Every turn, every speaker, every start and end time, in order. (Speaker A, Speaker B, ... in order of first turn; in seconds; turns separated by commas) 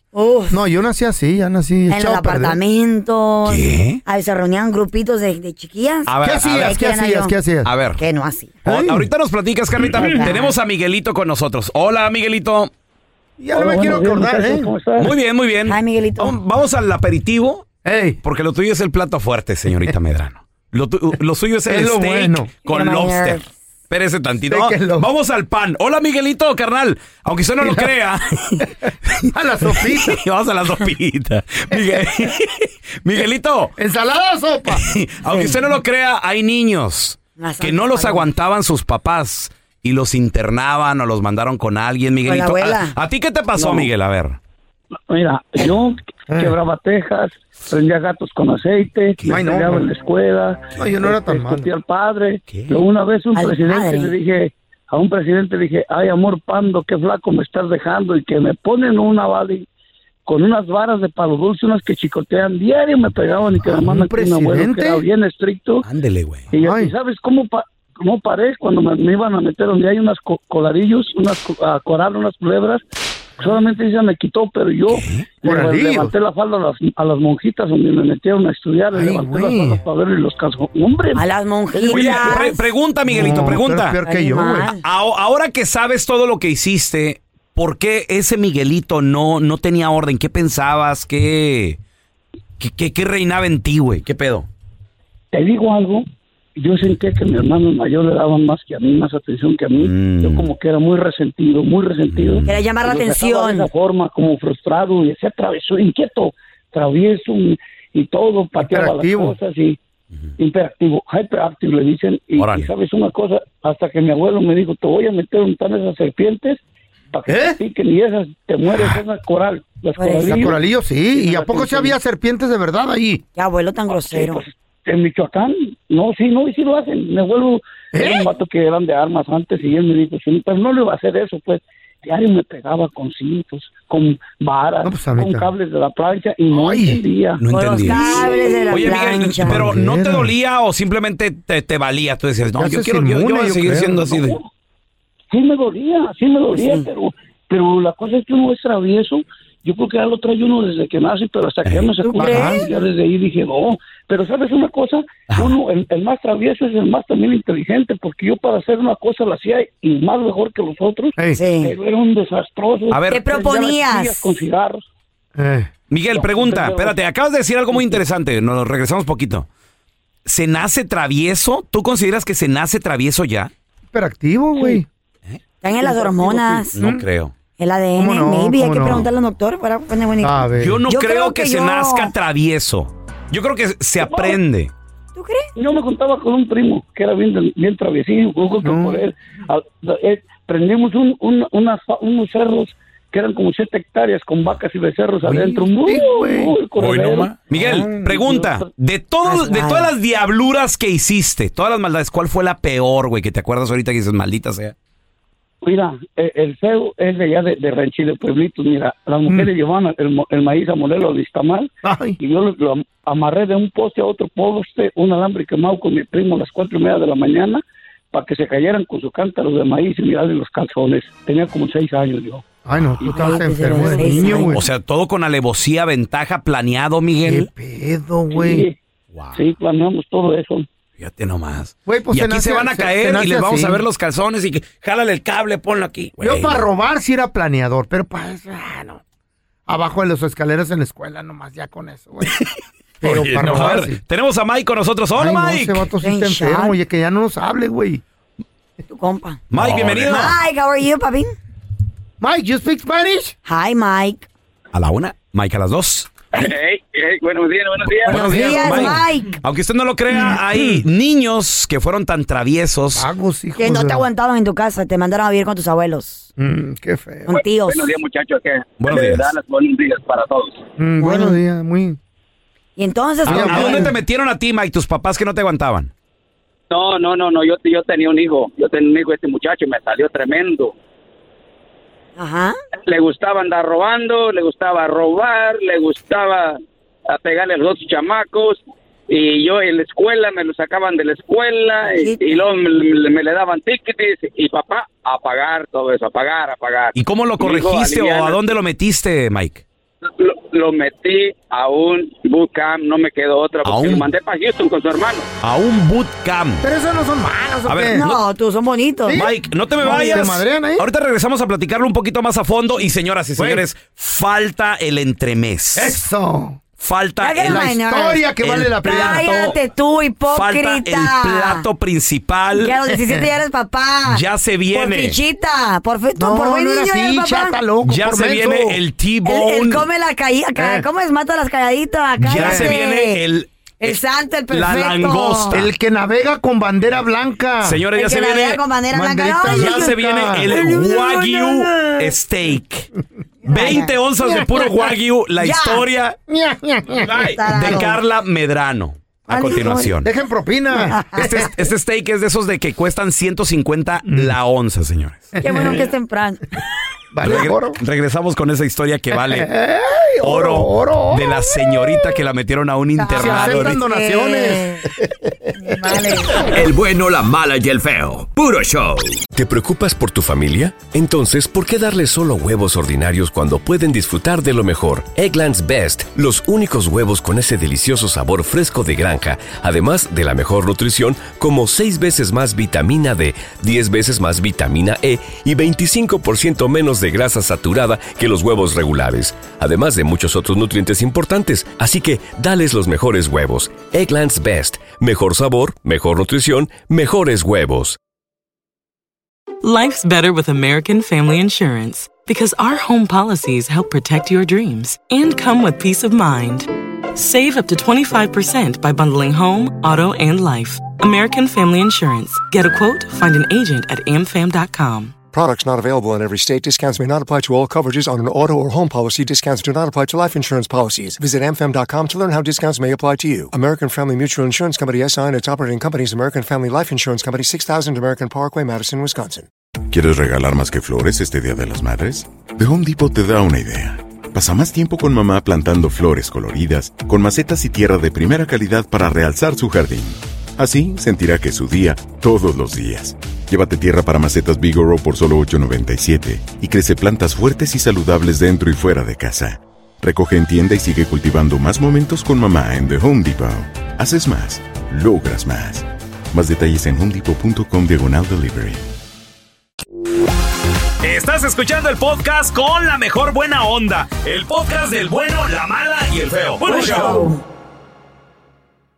Speaker A: 0.1-0.6, Speaker B: 0.5-2.6, Speaker A: 1.9-7.3, Speaker C: 3.5-4.0, Speaker C: 6.1-6.8, Speaker B: 6.2-7.7, Speaker C: 7.7-8.0, Speaker A: 8.0-8.6, Speaker B: 8.7-9.1, Speaker C: 8.7-12.7, Speaker A: 9.9-10.5, Speaker B: 13.4-14.7, Speaker D: 13.5-15.1, Speaker C: 15.0-17.7, Speaker A: 15.7-16.4, Speaker B: 17.9-18.2, Speaker C: 18.2-23.4, Speaker B: 21.7-22.5, Speaker A: 22.7-23.5, Speaker C: 23.9-33.7, Speaker B: 24.4-25.1, Speaker B: 27.6-27.9, Speaker B: 29.2-30.2, Speaker B: 31.7-32.0, Speaker B: 33.8-34.9, Speaker C: 34.7-44.4, Speaker A: 37.4-38.3, Speaker A: 42.3-43.0, Speaker D: 43.6-43.9, Speaker D: 45.1-59.7, Speaker B: 46.3-46.5, Speaker C: 49.2-49.5, Speaker B: 49.3-49.9, Speaker B: 50.8-51.7, Speaker C: 52.5-52.8, Speaker A: 53.4-54.1, Speaker D: 60.3-65.9, Speaker B: 63.6-65.0, Speaker C: 65.8-66.5, Speaker D: 66.5-72.8, Speaker B: 66.6-66.9, Speaker D: 73.4-81.2, Speaker C: 74.9-75.3, Speaker B: 75.4-76.1, Speaker B: 78.9-79.8, Speaker A: 81.2-82.7, Speaker C: 81.7-84.0, Speaker B: 83.1-84.7, Speaker A: 84.0-84.8, Speaker C: 84.8-91.8, Speaker C: 92.6-94.5, Speaker D: 95.3-96.1, Speaker D: 96.6-109.8, Speaker C: 99.8-100.5, Speaker C: 102.1-102.6, Speaker A: 102.5-103.7, Speaker B: 108.6-109.4, Speaker D: 110.4-120.6, Speaker C: 112.4-112.7, Speaker B: 117.3-117.6, Speaker A: 120.0-120.5, Speaker B: 120.3-123.2, Speaker D: 121.1-122.0, Speaker A: 123.4-124.4, Speaker D: 123.9-138.8, Speaker B: 127.9-128.3, Speaker B: 134.8-135.5, Speaker B: 136.5-137.0, Speaker C: 137.4-144.4, Speaker A: 137.5-139.6, Speaker B: 139.4-140.3, Speaker B: 142.5-144.2, Speaker D: 145.3-164.9, Speaker A: 146.5-146.9, Speaker A: 152.0-152.7, Speaker B: 152.2-152.7, Speaker C: 155.3-155.6, Speaker A: 161.3-161.8, Speaker C: 162.9-163.3, Speaker A: 163.1-164.3, Speaker B: 165.4-165.7, Speaker C: 165.9-169.5, Speaker D: 166.1-167.0, Speaker C: 170.3-173.5, Speaker B: 173.9-174.9, Speaker A: 175.6-176.8, Speaker D: 175.8-176.9, Speaker C: 176.7-177.3, Speaker A: 177.6-182.1, Speaker B: 178.0-179.1, Speaker B: 180.2-180.8, Speaker C: 180.6-184.7, Speaker D: 184.0-184.4, Speaker A: 185.2-185.5, Speaker D: 185.6-197.4, Speaker B: 188.6-189.0, Speaker B: 195.2-196.6, Speaker C: 196.8-204.8, Speaker B: 197.5-198.2, Speaker D: 198.1-198.7, Speaker A: 199.3-199.9, Speaker D: 205.6-222.4, Speaker B: 211.8-212.2, Speaker B: 222.7-224.6, Speaker A: 223.0-224.6, Speaker C: 224.3-227.5, Speaker B: 227.2-228.7, Speaker D: 228.3-228.8, Speaker C: 229.1-229.4, Speaker D: 229.3-230.7, Speaker C: 231.0-236.7, Speaker B: 231.9-233.8, Speaker B: 236.2-239.0, Speaker B: 239.7-242.4, Speaker B: 243.0-244.0, Speaker C: 243.0-245.9, Speaker B: 245.2-248.0, Speaker A: 246.0-246.8, Speaker A: 248.9-251.3, Speaker C: 249.5-250.4, Speaker B: 249.6-250.2, Speaker B: 252.2-253.3, Speaker A: 253.5-254.3, Speaker C: 254.7-256.1, Speaker E: 256.3-258.5, Speaker C: 257.9-263.1, Speaker A: 258.1-259.4, Speaker B: 258.2-259.0, Speaker B: 260.3-260.8, Speaker B: 262.9-264.1, Speaker A: 263.6-266.3, Speaker B: 266.4-267.3, Speaker A: 267.3-267.9, Speaker E: 267.4-270.6, Speaker C: 268.8-269.4, Speaker B: 270.8-272.0, Speaker A: 271.0-271.4, Speaker A: 272.8-273.9, Speaker C: 273.2-275.9, Speaker B: 273.3-274.0, Speaker E: 276.7-280.8, Speaker A: 282.2-282.6, Speaker E: 282.9-298.4, Speaker A: 291.8-292.4, Speaker C: 297.0-299.6, Speaker E: 300.2-305.3, Speaker C: 303.6-304.1, Speaker C: 305.4-306.6, Speaker B: 306.6-308.1, Speaker C: 307.7-308.2, Speaker A: 307.9-309.3, Speaker B: 309.1-310.9, Speaker C: 309.1-316.0, Speaker B: 313.4-313.6, Speaker B: 315.8-316.6, Speaker C: 316.8-317.7, Speaker A: 317.2-318.2, Speaker B: 317.4-319.5, Speaker C: 318.4-319.6, Speaker A: 318.8-321.7, Speaker C: 320.3-322.7, Speaker A: 322.6-327.6, Speaker C: 324.1-325.2, Speaker B: 326.2-328.8, Speaker C: 327.9-329.9, Speaker A: 329.2-333.2, Speaker B: 330.6-330.9, Speaker C: 332.2-335.7, Speaker B: 332.4-332.8, Speaker A: 333.8-335.6, Speaker B: 335.5-337.8, Speaker C: 337.6-338.6, Speaker A: 338.0-342.0, Speaker B: 338.9-340.8, Speaker C: 339.5-342.9, Speaker A: 343.5-343.9, Speaker C: 343.5-346.2, Speaker B: 344.2-344.7, Speaker A: 345.4-345.9, Speaker B: 346.3-347.8, Speaker C: 347.0-350.1, Speaker A: 347.2-348.0, Speaker A: 349.3-349.9, Speaker B: 349.4-351.5, Speaker A: 350.9-351.2, Speaker C: 351.1-355.4, Speaker B: 354.1-354.4, Speaker B: 355.4-355.9, Speaker A: 355.4-356.4, Speaker B: 357.1-357.8, Speaker C: 357.2-359.5, Speaker B: 359.1-362.1, Speaker C: 360.2-363.8, Speaker A: 363.0-364.9, Speaker B: 363.1-366.1, Speaker A: 365.5-366.5, Speaker F: 366.5-369.2, Speaker G: 369.3-398.0, Speaker H: 399.6-415.1, Speaker I: 415.3-429.5, Speaker J: 429.9-458.9, Speaker C: 461.0-467.3, Speaker A: 466.6-467.4